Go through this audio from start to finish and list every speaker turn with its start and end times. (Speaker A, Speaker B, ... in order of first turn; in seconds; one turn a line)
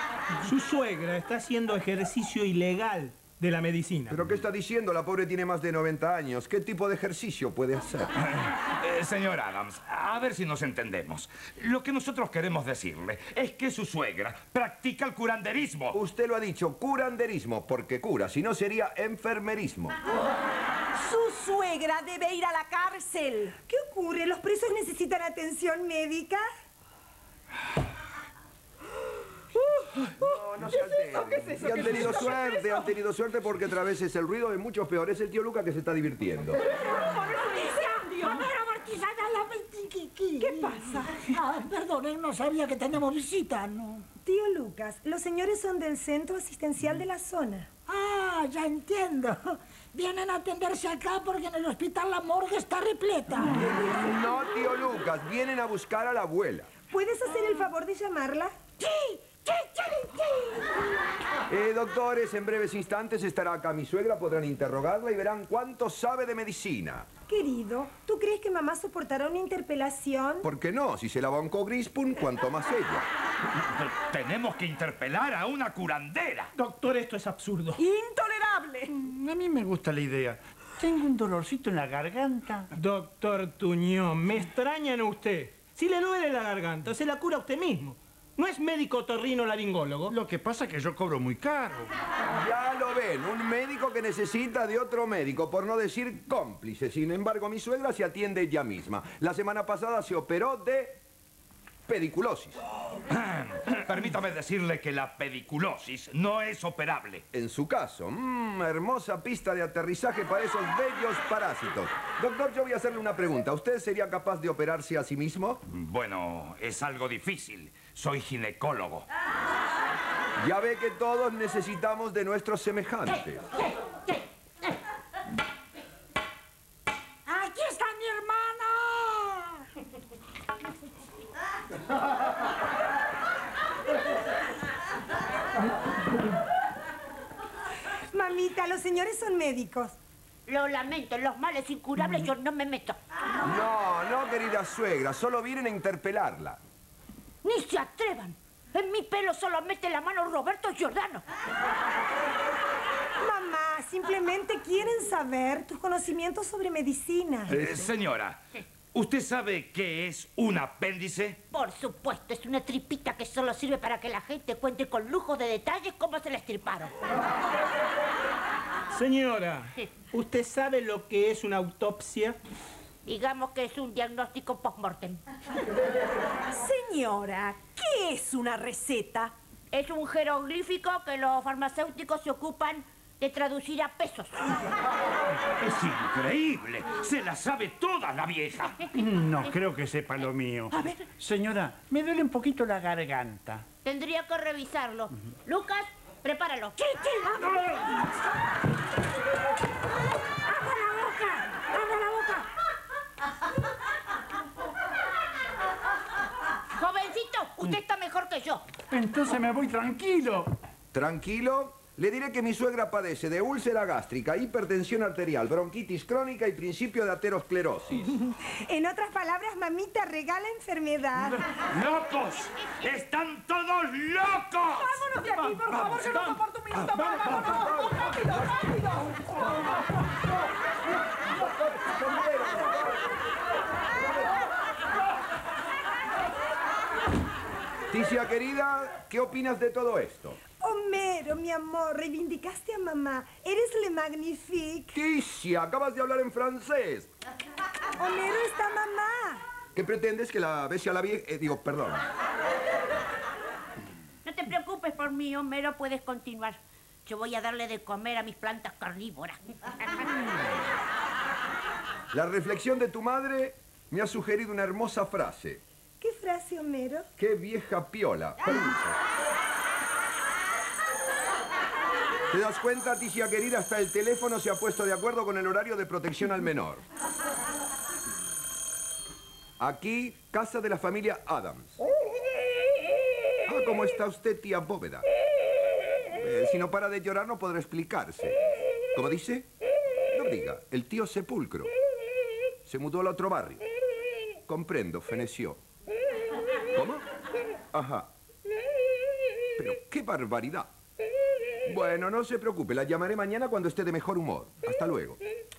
Speaker A: 0.4-4.2
Speaker B: 4.1-8.1
Speaker C: 8.2-15.9
Speaker B: 15.9-19.9
Speaker D: 20.9-23.5
Speaker E: 23.7-26.4
Speaker B: 30.2-36.6
Speaker D: 30.8-32.9
Speaker D: 36.8-38.5
Speaker F: 37.0-44.0
Speaker D: 40.4-41.1
Speaker E: 44.2-47.7
Speaker F: 47.9-53.8
Speaker B: 53.5-56.7
Speaker E: 56.9-58.6
Speaker F: 58.8-60.6
Speaker B: 61.5-67.1
Speaker E: 67.3-70.5
Speaker B: 70.4-73.1
Speaker C: 73.5-76.5
Speaker A: 76.5-77.8
Speaker D: 77.8-78.9
Speaker G: 78.9-82.7
Speaker A: 82.7-90.1
Speaker G: 90.1-91.9
Speaker B: 92.3-101.0
Speaker B: 101.9-102.6
Speaker C: 103.1-107.2
Speaker B: 107.3-115.6
Speaker C: 115.7-119.0
Speaker B: 120.4-123.4
Speaker F: 127.3-129.6
Speaker E: 138.1-139.9
Speaker H: 140.5-143.0
Speaker B: 143.4-146.6
Speaker H: 147.4-151.2
Speaker E: 153.2-157.8
Speaker C: 157.4-158.4
Speaker C: 158.9-161.4
Speaker H: 161.5-166.9
Speaker A: 168.9-172.4
Speaker H: 173.1-175.2
Speaker D: 176.5-179.3
Speaker H: 179.7-184.6
Speaker C: 185.6-188.7
Speaker H: 188.8-189.5
Speaker G: 188.9-193.6
Speaker H: 193.8-198.0
Speaker F: 200.5-202.4
Speaker H: 206.7-208.6
Speaker G: 208.9-210.5
Speaker B: 210.9-218.1
Speaker E: 218.3-221.4
Speaker C: 221.7-224.9
Speaker C: 225.7-226.2
Speaker G: 225.7-226.2
Speaker C: 226.9-227.4
Speaker B: 227.3-229.6
Speaker B: 231.3-233.0
Speaker B: 237.9-240.4
Speaker E: 240.6-244.9
Speaker B: 244.9-247.1
Speaker E: 248.0-249.4
Speaker B: 249.7-252.0
Speaker H: 254.2-260.1
Speaker B: 262.1-265.6
Speaker E: 266.0-267.1
Speaker B: 267.2-268.9
Speaker B: 272.3-276.8
Speaker B: 279.6-281.8
Speaker B: 283.4-285.1
Speaker B: 286.1-288.4
Speaker B: 288.9-289.5
Speaker B: 290.1-291.7
Speaker B: 292.6-293.6
Speaker B: 294.5-295.6
Speaker B: 296.7-297.1
Speaker B: 297.7-298.1
Speaker B: 299.6-300.7
Speaker B: 301.6-305.2